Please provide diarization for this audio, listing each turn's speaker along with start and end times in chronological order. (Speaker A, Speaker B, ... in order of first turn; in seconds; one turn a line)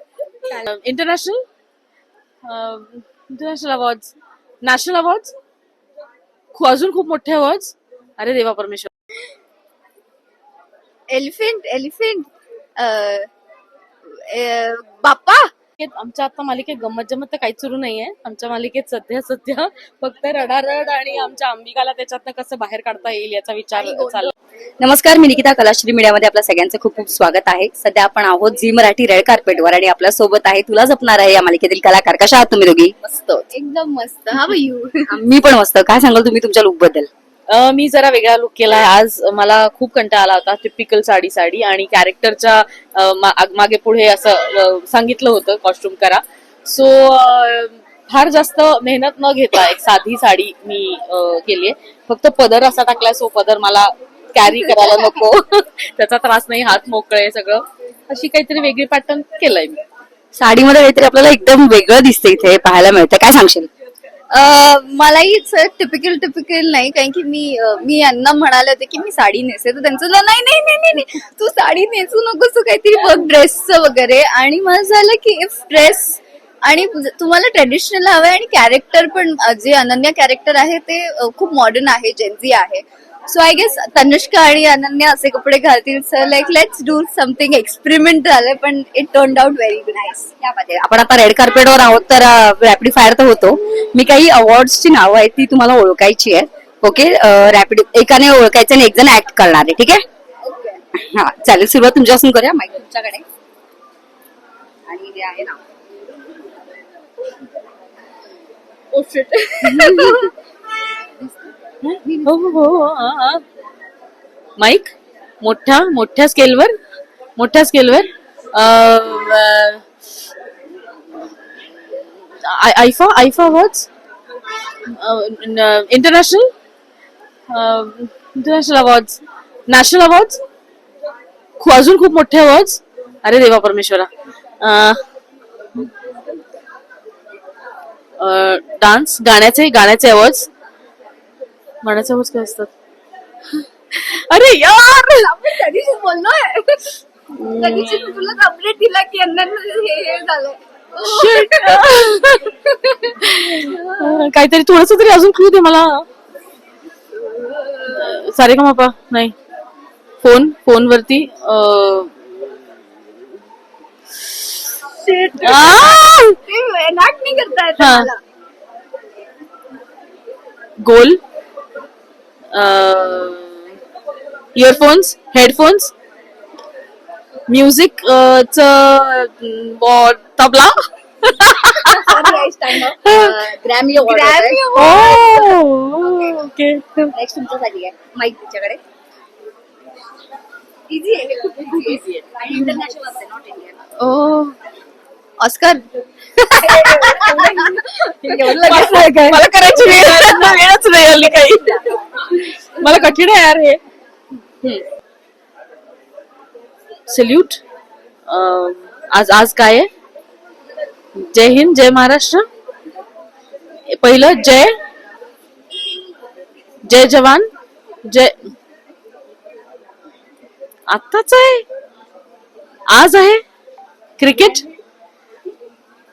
Speaker A: 0.4-1.4
Speaker A: 2.4-5.3
Speaker A: 6.5-8.9
Speaker B: 11.1-13.3
Speaker B: 14.1-15.5
Speaker A: 15.8-24.3
Speaker B: 23.8-24.3
Speaker C: 24.8-33.0
Speaker A: 33.0-33.5
Speaker B: 33.5-35.2
Speaker C: 35.1-37.1
Speaker A: 37.5-59.8
Speaker C: 60.4-63.7
Speaker B: 64.3-90.4
Speaker C: 90.4-100.0
Speaker B: 100.5-100.8
Speaker C: 100.9-103.2
Speaker C: 104.9-105.6
Speaker B: 108.9-110.3
Speaker C: 109.7-110.2
Speaker A: 111.8-113.4
Speaker C: 112.1-112.3
Speaker A: 114.6-116.8
Speaker A: 117.4-119.8
Speaker A: 122.4-123.9
Speaker A: 124.8-126.5
Speaker A: 127.5-130.4
Speaker A: 131.6-135.0
Speaker A: 138.2-140.5
Speaker A: 141.8-142.7
Speaker A: 143.9-145.5
Speaker B: 145.2-147.0
Speaker A: 147.3-148.4
Speaker B: 147.5-154.1
Speaker A: 151.0-152.5
Speaker A: 153.2-156.1
Speaker B: 157.2-158.0
Speaker A: 157.8-159.3
Speaker A: 160.2-162.2
Speaker B: 164.9-168.2
Speaker A: 165.4-166.4
Speaker A: 167.8-168.1
Speaker A: 170.8-171.2
Speaker A: 172.5-173.6
Speaker A: 174.6-175.9
Speaker A: 177.5-183.4
Speaker B: 181.9-183.0
Speaker C: 182.0-184.6
Speaker A: 183.9-187.2
Speaker B: 184.1-185.6
Speaker C: 186.0-186.4
Speaker C: 187.1-188.8
Speaker C: 190.9-193.8
Speaker B: 191.2-191.9
Speaker A: 191.7-192.3
Speaker A: 194.0-194.5
Speaker B: 195.4-195.8
Speaker B: 196.4-198.5
Speaker C: 196.6-200.6
Speaker A: 198.2-203.8
Speaker B: 199.8-200.5
Speaker A: 207.1-207.6
Speaker A: 208.3-209.9
Speaker A: 211.1-212.5
Speaker A: 213.9-214.7
Speaker A: 216.8-217.5
Speaker A: 218.1-218.5
Speaker A: 220.9-221.7
Speaker A: 222.9-223.4
Speaker A: 224.2-224.7